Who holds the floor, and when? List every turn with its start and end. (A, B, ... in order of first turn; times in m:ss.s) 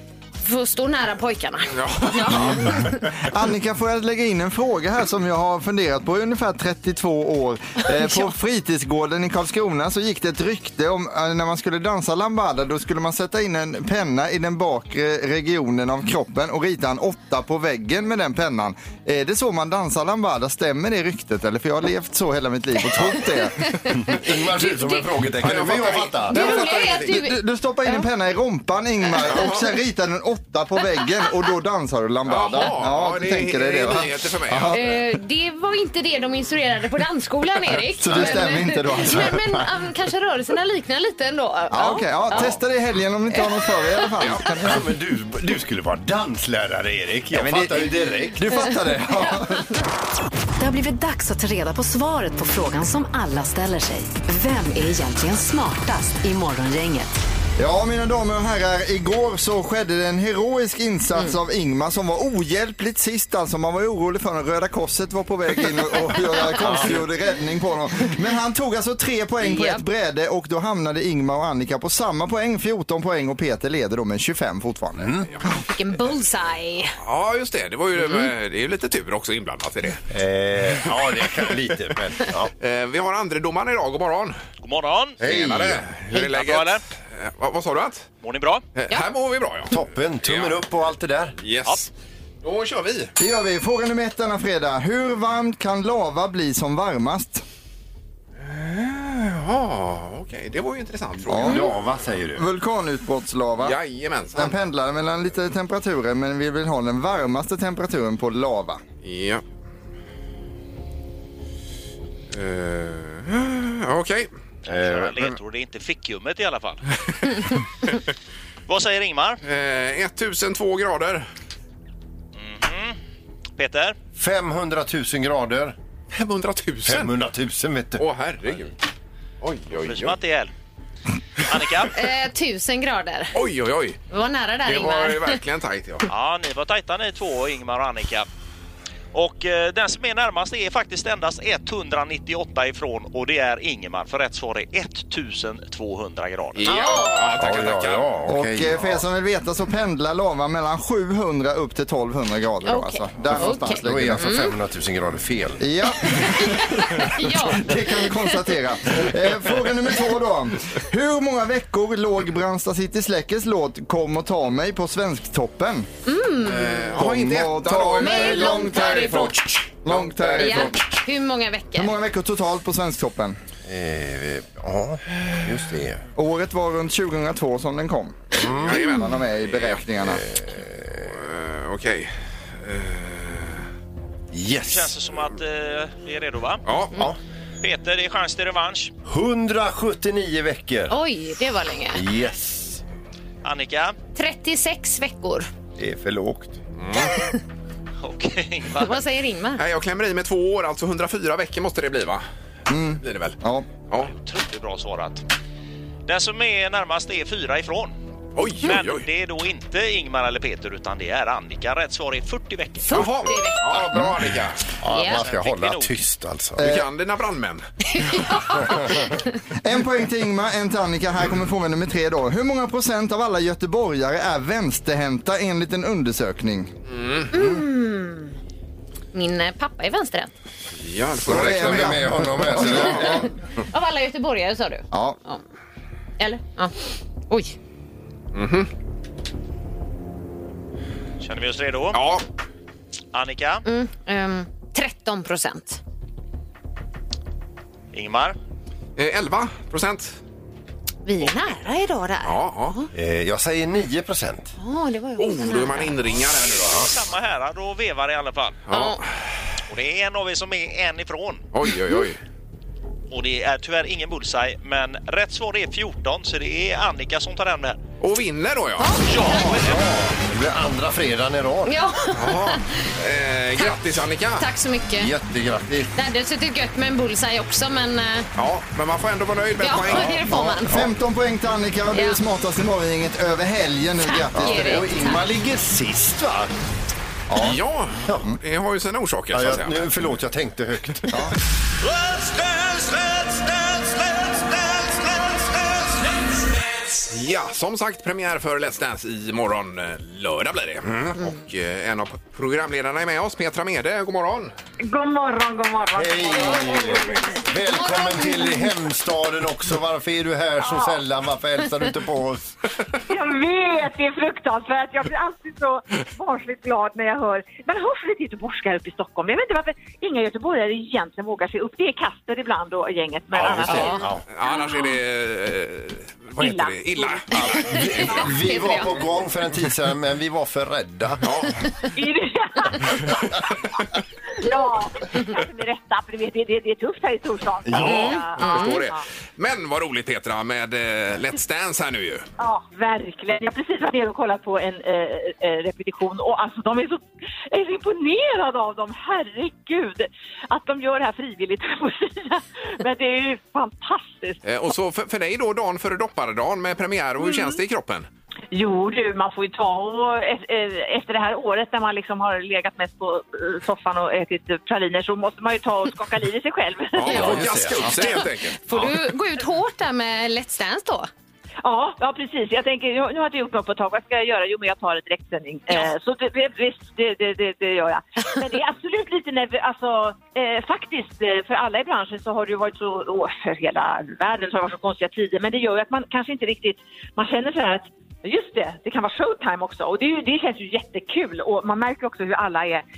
0:00.4-0:03.0 A
0:01.7-0:02.7 B
0:02.3-0:23.8 C
0:08.0-0:08.3 A
0:23.6-0:25.1 A
0:24.0-0:26.5 D
0:25.4-0:27.1 B
0:26.3-0:28.1 A
0:26.3-0:35.0 C
0:29.3-0:29.6 B
0:32.3-0:34.8 B
0:34.7-0:42.5 A
0:38.0-0:39.7 C
0:41.7-0:44.9 C
0:44.6-0:48.7 D
0:47.3-0:49.7 C
0:49.2-0:49.6 A
0:50.6-0:57.1 E
0:57.6-1:15.2 C
1:06.6-1:06.9 D
1:09.4-1:09.8 A
1:15.0-1:15.3 D
1:15.6-1:17.0 A
1:17.0-1:20.0 B
1:18.0-1:18.3 A
1:20.1-1:22.5 D
1:21.1-1:21.4 B
1:22.6-1:24.4 B
1:24.6-1:25.2 F
1:25.2-1:25.9 D
1:25.2-1:28.1 B
1:26.1-1:26.8 F
1:28.2-1:28.6 F
1:28.8-1:30.6 B
1:29.7-1:31.4 D
1:31.4-1:31.9 B
1:32.4-1:33.1 B
1:33.2-1:37.4 C
1:38.4-1:41.6 B
1:41.3-1:41.7 C
1:41.4-1:42.4 D
1:42.4-1:43.8 C
1:43.6-1:44.6 B
1:44.4-1:48.8 C
1:49.0-1:49.4 B
1:52.3-1:54.3 B
1:54.7-1:56.8 F
1:54.7-1:55.3 D
1:58.7-1:59.4 F
1:59.4-2:01.3 B
2:02.4-2:03.0 F
2:03.6-2:04.0 F
2:04.2-2:05.8 D
2:06.1-2:07.1 B
2:06.8-2:08.0 D
2:08.0-2:08.7 B
2:09.4-2:10.2 B
2:09.7-2:10.5 F
2:11.5-2:12.0 F
2:11.9-2:13.4 A
2:13.3-2:14.0 B
2:14.1-2:15.4 A
2:14.6-2:16.1 B
2:16.1-2:18.3 F
2:19.1-2:27.1 F
2:26.6-2:28.1 B
2:26.7-2:27.3 A
2:27.4-2:29.0 D
2:28.3-2:34.4 C
2:32.6-2:34.5 A
2:33.8-2:35.6 D
2:35.6-2:45.9 C
2:36.1-2:38.3 A
2:46.1-2:47.0 A
2:46.6-2:49.3 B
2:46.9-2:50.8 C
2:48.0-2:49.3 A
2:49.8-2:50.7 B
2:50.4-2:51.9 A
2:51.7-2:53.4 C
2:53.7-2:56.0 D
2:56.2-3:00.2 C
2:58.4-2:58.8 D
2:58.6-2:59.8 B
3:00.0-3:01.1 D
3:01.1-3:03.6 B
3:04.3-3:05.0 D
3:04.7-3:06.6 F
3:06.7-3:06.9 B
3:07.6-3:08.9 F
3:09.1-3:11.0 D
3:10.9-3:12.0 A
3:11.9-3:12.8 D
3:13.4-3:14.0 F
3:14.2-3:15.5 A
3:15.8-3:16.6 D
3:16.8-3:17.1 B
3:18.0-3:19.0 F
3:18.8-3:19.6 A
3:19.6-3:22.2 B
3:22.7-3:23.7 C
3:23.0-3:23.4 B
3:24.0-3:25.2 F
3:26.1-3:28.0 F
3:28.4-3:29.1 B
3:28.6-3:33.3 F
3:32.8-3:33.8 A
3:32.9-3:34.6 B
3:34.8-3:36.6 D
3:34.9-3:35.2 A
3:35.1-3:35.9 F
3:36.6-3:36.9 C
3:36.6-3:37.6 B
3:37.9-3:39.2 A
3:39.6-3:46.7 C
3:46.9-3:47.3 B
3:47.3-3:48.4 A
3:49.1-3:50.3 A
3:50.8-3:52.8 B
3:51.2-3:53.3 D
3:51.3-3:53.3 C
3:53.6-3:55.4 A
3:54.9-3:55.2 C
3:56.2-3:56.7 A
3:58.3-3:58.7 B
4:01.2-4:02.0 F
4:01.9-4:02.2 B
4:03.1-4:03.6 F
4:03.6-4:05.8 A
4:07.9-4:08.4 F
4:09.0-4:10.2 B
4:11.0-4:12.9 A
4:12.2-4:12.8 B
4:12.9-4:14.5 D
4:14.6-4:16.0 A
4:15.2-4:16.9 B
4:16.5-4:18.6 F
4:18.7-4:19.2 B
4:18.7-4:19.0 A
4:19.7-4:21.5 F
4:21.5-4:22.2 B
4:23.1-4:27.8 F
4:28.0-4:29.0 B
4:28.8-4:29.6 A
4:29.0-4:29.8 F
4:29.5-4:31.7 D
4:31.7-4:32.9 A
4:32.1-4:34.5 B
4:34.4-4:35.1 A
4:35.0-4:35.9 D
4:36.0-4:38.3 A
4:38.4-4:40.2 B
4:39.6-4:40.9 A
4:40.2-4:44.9 C
4:41.9-4:42.2 A
4:44.0-4:45.2 A
4:44.4-4:46.5 D
4:47.3-4:47.6 C
4:47.4-4:49.9 B
4:49.3-4:51.2 D
4:57.1-5:04.5 B
5:04.8-5:07.4 G
5:06.0-5:12.6 D
5:07.7-5:08.7 A
5:10.6-5:11.0 G
5:13.1-5:24.9 G
5:23.3-5:24.2 D
5:23.7-5:24.0 A
5:24.3-5:28.3 B
5:26.4-5:28.4 G
5:27.5-5:31.2 D
5:27.7-5:29.0 A
5:31.2-5:31.6 B
5:32.0-5:33.2 G
5:34.4-5:39.0 G
5:37.7-5:42.3 B
5:37.8-5:38.7 A
5:42.4-5:54.4 G
5:54.4-5:58.1 B
5:57.2-5:57.6 G
5:58.5-6:07.5 G
6:06.9-6:08.9 B
6:07.1-6:08.0 D
6:08.0-6:11.1 A
6:11.6-6:32.8 G